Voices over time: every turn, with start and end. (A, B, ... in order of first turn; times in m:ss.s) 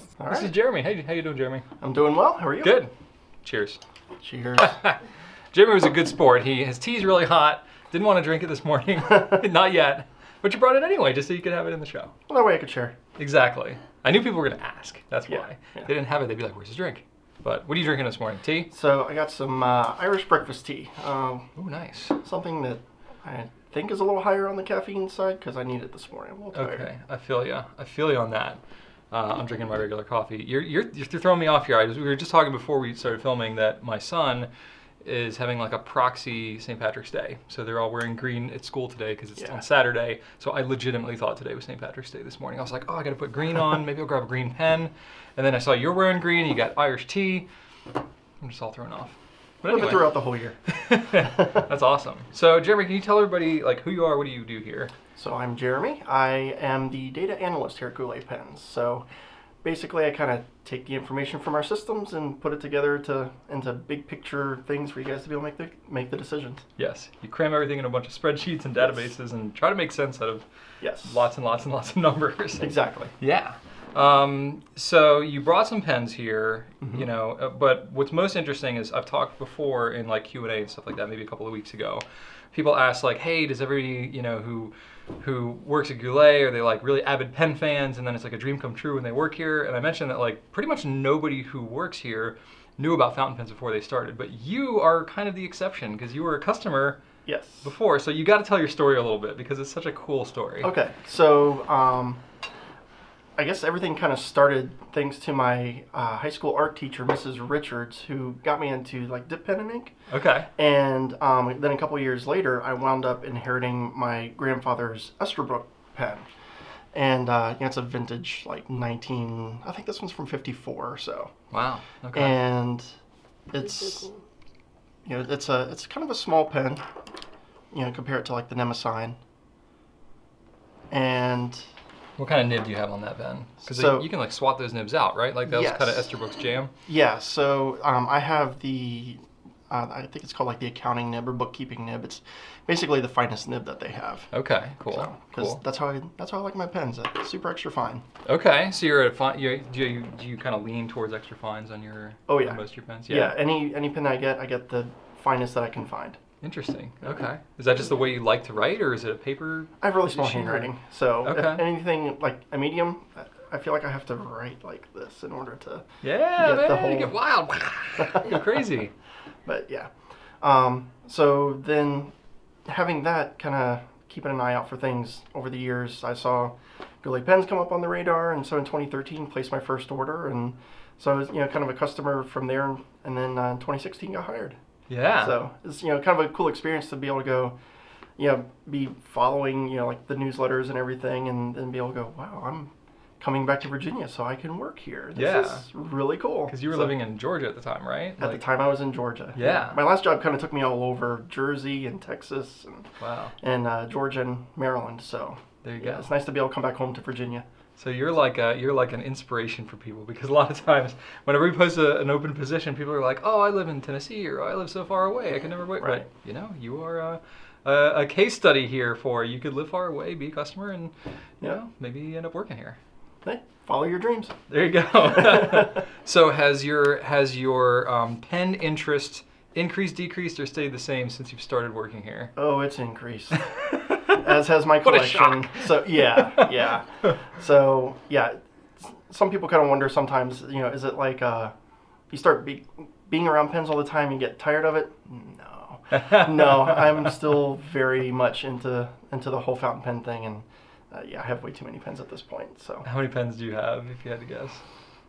0:00.2-0:00.6 A
0:00.3-0:01.6 B
0:01.8-0:02.8 A
0:02.6-0:02.9 B
0:03.4-0:03.8 B
0:04.2-0:04.8 A
0:04.6-0:05.0 B
0:05.5-0:12.1 B
0:09.1-0:09.4 A
0:12.3-0:13.0 A
0:13.2-0:18.7 B
0:15.3-0:15.9 A
0:18.7-0:21.5 A
0:21.6-0:22.2 B
0:22.2-0:26.9 A
0:26.5-0:34.5 B
0:35.0-0:47.5 B
0:48.4-0:54.9 B
0:49.7-0:50.6 A
0:51.2-0:51.6 A
0:55.1-0:59.0 A
0:59.6-1:06.6 A
1:06.8-1:10.5 B
1:10.8-1:11.3 A
1:11.0-1:37.0 B
1:12.6-1:13.1 A
1:37.2-1:37.7 A
1:37.6-1:40.7 B
1:40.6-1:42.2 A
1:43.4-1:49.9 A
1:50.1-1:50.5 B
1:50.6-1:56.3 A
1:56.9-2:01.3 A
2:01.5-2:02.4 B
2:02.1-2:02.9 A
2:03.5-2:04.1 A
2:05.0-2:06.8 A
2:07.7-2:09.2 A
2:10.9-2:11.7 A
2:12.2-2:16.7 B
2:13.6-2:14.1 A
2:15.4-2:16.1 A
2:16.8-2:24.3 A
2:24.3-2:25.6 B
2:24.8-2:28.0 A
2:28.2-2:33.4 B
2:32.3-2:36.2 A
2:36.4-2:40.7 B
2:39.8-2:45.8 A
2:41.2-2:41.6 B
2:46.0-2:48.9 B
2:46.4-2:47.2 A
2:48.0-2:48.8 A
2:49.4-2:49.9 A
2:50.4-2:52.1 A
2:52.7-3:04.6 A
3:04.9-3:05.4 B
3:05.2-3:07.6 A
3:08.2-3:17.0 A
3:15.1-3:15.7 B
3:16.5-3:18.4 B
3:18.2-3:22.9 A
3:19.3-3:19.8 B
3:23.0-3:23.3 B
3:23.4-3:27.4 A
3:25.6-3:26.1 B
3:27.8-3:42.8 B
3:35.8-3:36.1 A
3:43.2-3:44.3 A
3:44.5-3:52.3 B
3:45.1-3:45.7 A
3:52.4-4:01.5 A
3:53.4-3:54.2 B
3:54.8-3:56.5 B
4:02.1-4:12.8 A
4:06.0-4:06.8 B
4:12.8-4:14.6 B